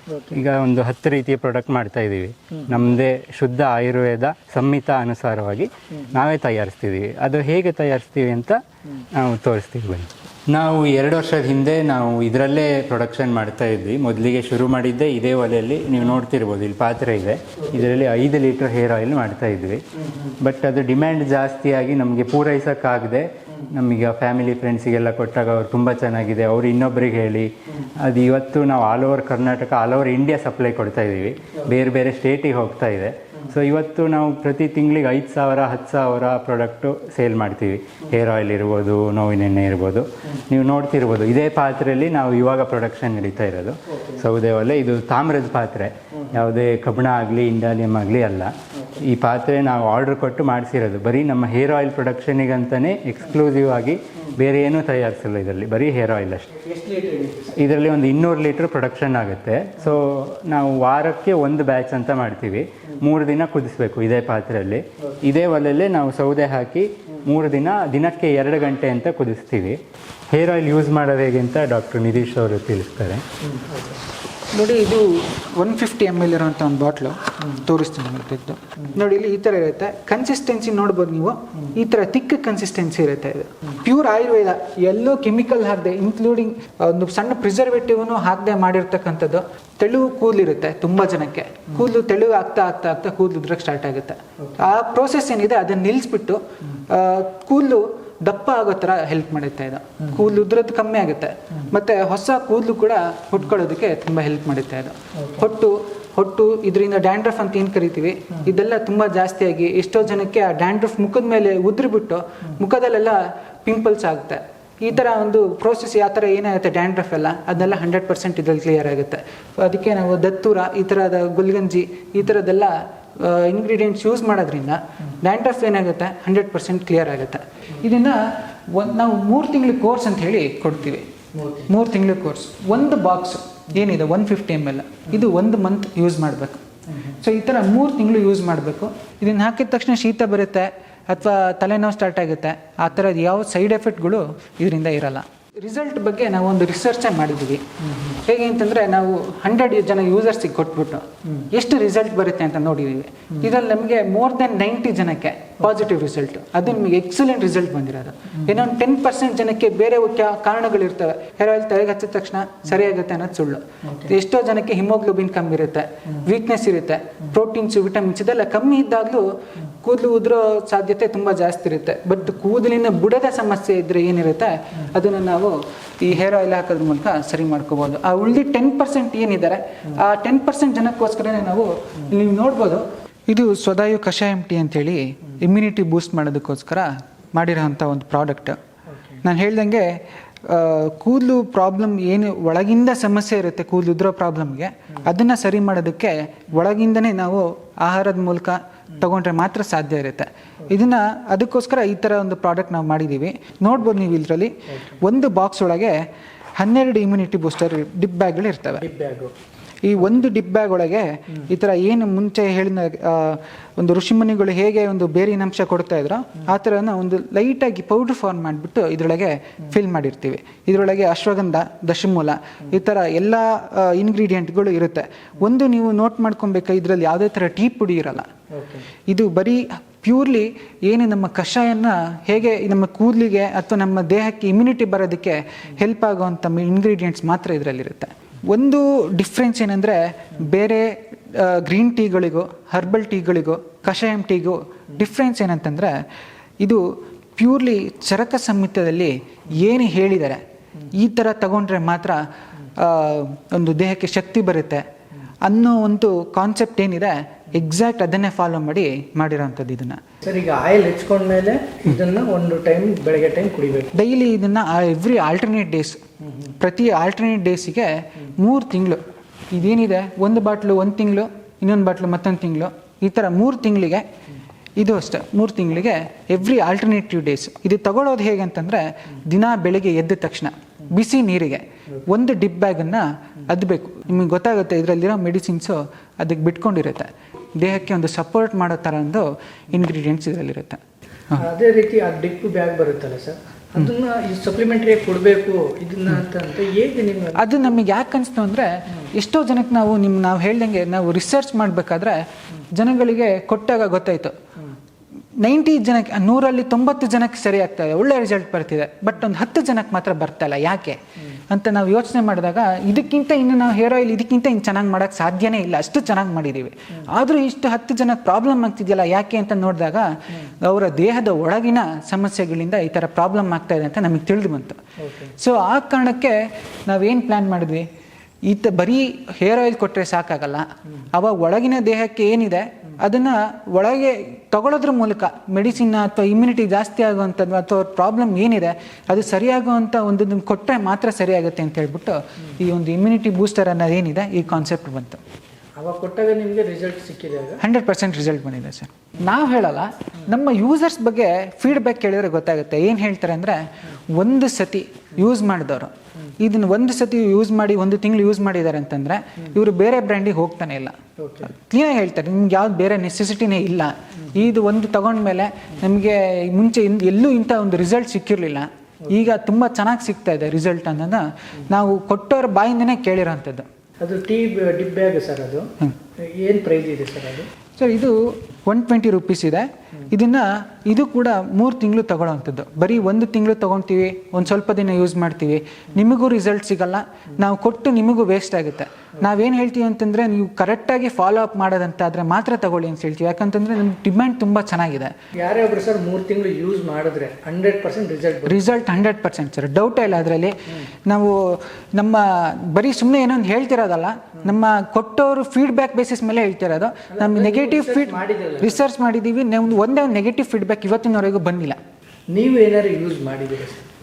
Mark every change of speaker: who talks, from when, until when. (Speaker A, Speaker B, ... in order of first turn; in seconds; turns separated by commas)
Speaker A: 0.3-19.8, Speaker A: 20.4-56.6, Speaker B: 56.6-57.5, Speaker A: 57.5-69.8, Speaker A: 70.3-73.2, Speaker B: 73.5-74.0, Speaker C: 74.5-131.1, Speaker B: 131.3-131.7, Speaker C: 131.7-136.6, Speaker C: 137.2-147.6, Speaker B: 147.9-148.2, Speaker C: 148.2-169.2, Speaker C: 169.8-188.6, Speaker C: 189.2-189.9, Speaker C: 190.4-205.9, Speaker C: 206.6-208.8, Speaker B: 208.8-209.3, Speaker C: 209.8-228.3, Speaker B: 228.5-228.9, Speaker C: 229.1-245.9, Speaker C: 247.4-250.4, Speaker C: 250.9-252.2, Speaker C: 252.8-254.8, Speaker C: 255.4-260.0, Speaker B: 260.2-263.9, Speaker C: 263.9-266.0, Speaker C: 266.6-274.0, Speaker C: 274.8-290.8, Speaker B: 291.3-297.4, Speaker C: 297.3-304.3, Speaker C: 305.4-324.8, Speaker B: 325.0-325.3, Speaker C: 325.4-327.9, Speaker C: 328.5-345.2, Speaker B: 345.8-347.6, Speaker C: 347.6-373.6, Speaker B: 361.2-361.5, Speaker B: 374.0-377.5, Speaker C: 377.8-395.1, Speaker B: 395.4-398.8, Speaker C: 398.4-411.8, Speaker B: 407.1-408.8, Speaker B: 412.3-413.9